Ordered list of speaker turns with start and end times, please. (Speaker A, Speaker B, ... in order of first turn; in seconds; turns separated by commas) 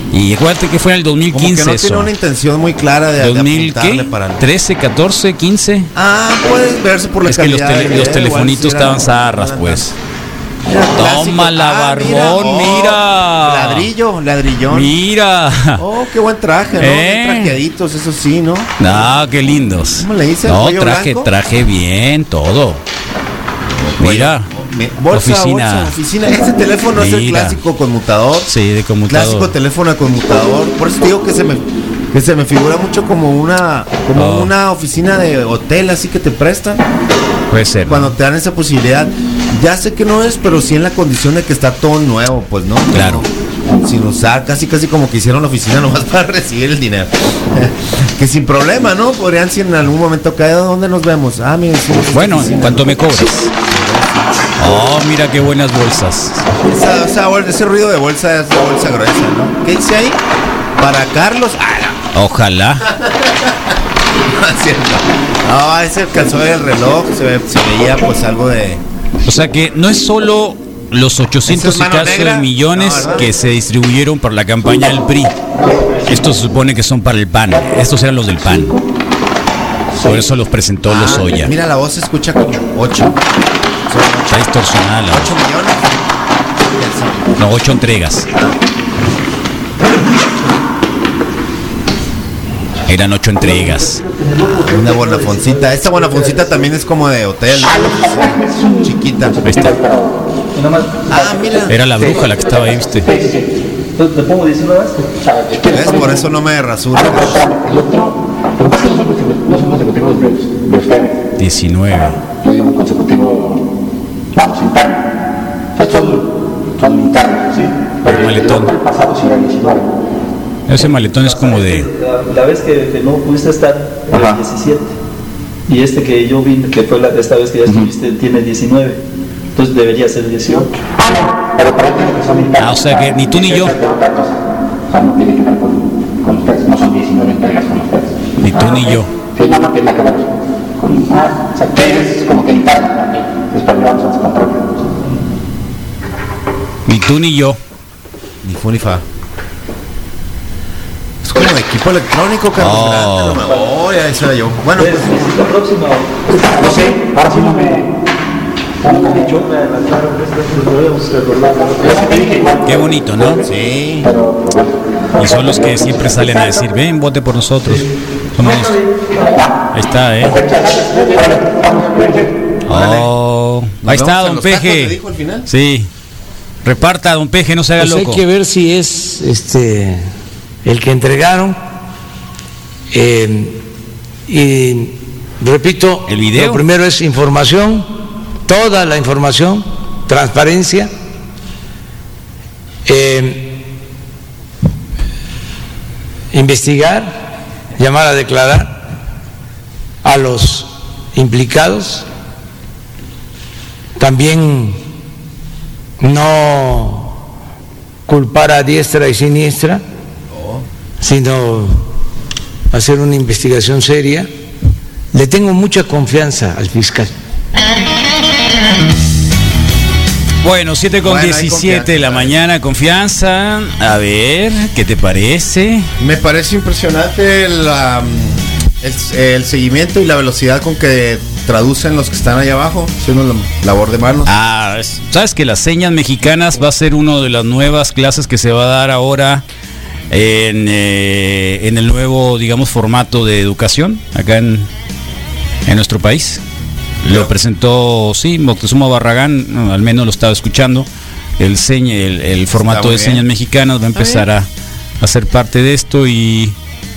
Speaker A: 0.1-2.1, Speaker B: 1.3-4.4, Speaker A: 3.2-5.9, Speaker B: 5.9-9.9, Speaker A: 7.3-9.9, Speaker B: 10.7-14.9, Speaker A: 10.9-13.9, Speaker A: 14.7-15.8, Speaker B: 15.8-19.1, Speaker A: 16.8-17.6, Speaker A: 18.8-22.8, Speaker B: 20.0-21.3, Speaker B: 23.8-28.5, Speaker A: 24.0-24.5, Speaker A: 25.1-25.9, Speaker A: 27.0-27.6, Speaker A: 28.4-29.5, Speaker B: 29.1-36.8, Speaker A: 34.1-34.5, Speaker A: 37.5-38.1, Speaker B: 37.9-54.1, Speaker A: 42.9-43.2, Speaker A: 52.1-53.5, Speaker A: 54.6-56.5, Speaker B: 56.6-60.2, Speaker B: 60.8-62.0, Speaker A: 62.1-62.9, Speaker B: 62.8-68.8, Speaker A: 69.2-75.3, Speaker B: 71.5-73.2, Speaker A: 76.1-78.8, Speaker A: 80.0-81.5, Speaker B: 80.9-83.2, Speaker B: 83.9-84.5, Speaker A: 84.3-85.3, Speaker B: 85.1-85.8, Speaker B: 86.7-87.3, Speaker A: 87.4-88.3, Speaker A: 92.9-94.0, Speaker B: 94.4-99.4, Speaker C: 94.8-95.2, Speaker A: 99.4-99.8, Speaker C: 100.5-101.2, Speaker B: 101.1-101.8, Speaker A: 101.7-103.1, Speaker C: 104.0-105.0, Speaker B: 105.7-107.5, Speaker A: 111.4-112.2, Speaker A: 118.0-118.7, Speaker C: 119.2-119.8, Speaker A: 120.7-121.9, Speaker C: 121.2-124.9, Speaker C: 125.7-129.0, Speaker C: 129.5-130.9, Speaker C: 131.6-132.6, Speaker A: 132.6-133.8, Speaker A: 138.4-139.1, Speaker A: 146.8-147.6, Speaker B: 148.4-149.0, Speaker B: 151.2-155.2, Speaker A: 152.6-153.4, Speaker C: 154.7-157.9, Speaker C: 158.8-162.5, Speaker A: 162.6-163.4, Speaker B: 163.4-164.1, Speaker A: 165.2-167.8, Speaker A: 168.3-168.8, Speaker A: 169.7-170.4, Speaker A: 172.7-174.9, Speaker B: 172.7-173.1, Speaker B: 173.8-175.5, Speaker A: 175.5-175.9, Speaker A: 176.6-178.2, Speaker D: 177.8-180.1, Speaker D: 180.6-181.6, Speaker D: 182.9-183.6, Speaker D: 184.3-187.9, Speaker A: 186.1-186.6, Speaker D: 188.4-190.9, Speaker D: 192.8-193.6, Speaker D: 196.3-198.9, Speaker D: 200.0-202.1, Speaker D: 204.0-204.8, Speaker D: 206.0-207.2, Speaker D: 208.1-209.8, Speaker B: 210.3-210.6, Speaker D: 211.0-211.9, Speaker D: 212.7-214.3, Speaker D: 215.1-217.1, Speaker A: 220.4-225.9, Speaker B: 221.0-222.3, Speaker B: 226.0-234.3, Speaker A: 234.2-239.4, Speaker A: 240.1-244.7, Speaker A: 245.7-246.4, Speaker A: 247.0-250.9, Speaker B: 247.1-247.3, Speaker A: 251.4-254.5, Speaker B: 252.5-253.2, Speaker B: 253.9-254.2, Speaker A: 255.0-256.6